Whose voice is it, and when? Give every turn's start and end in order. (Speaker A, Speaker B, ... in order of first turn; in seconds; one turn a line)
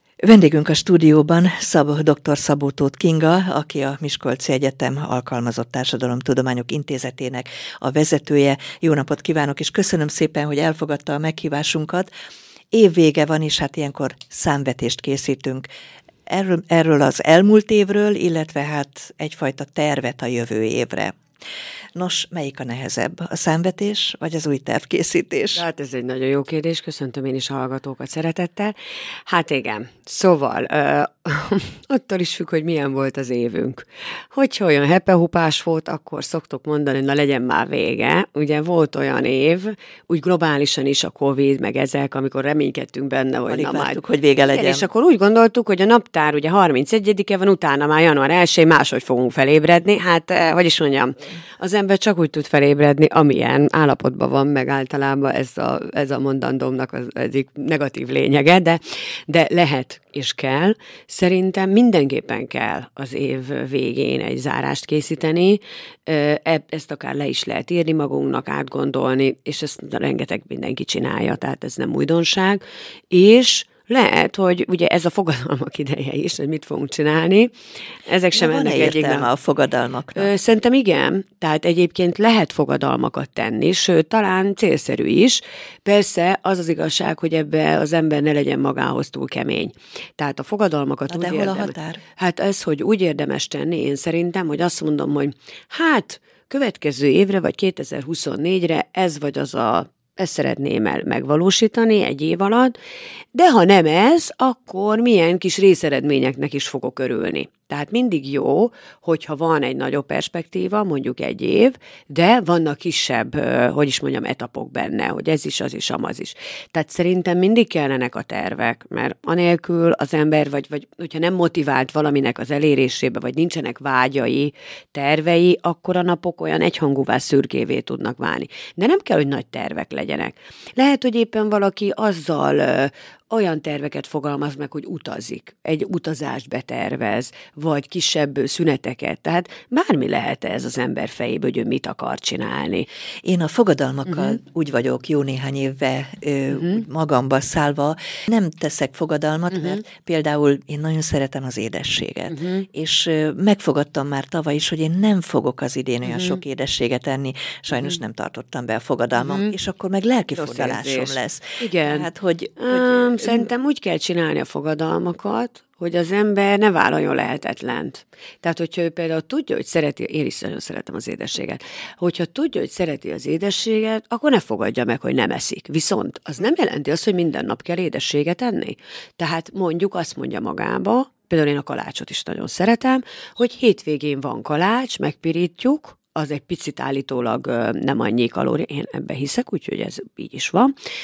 Speaker A: 0.2-12.1
Speaker A: 12.7-15.7
Speaker A: 16.3-21.1
Speaker A: 21.9-25.6
Speaker B: 25.5-28.7
Speaker B: 29.3-44.0
Speaker A: 43.5-44.9
Speaker B: 44.5-77.5
Speaker B: 78.0-79.3
Speaker A: 78.3-80.3
Speaker B: 80.2-102.8
Speaker A: 91.1-92.0
Speaker B: 103.3-142.9
Speaker A: 143.2-163.5
Speaker B: 144.1-144.4
Speaker B: 146.5-146.8
Speaker B: 149.5-149.8
Speaker B: 152.3-152.7
Speaker B: 156.0-156.4
Speaker B: 159.2-159.5
Speaker B: 160.3-190.7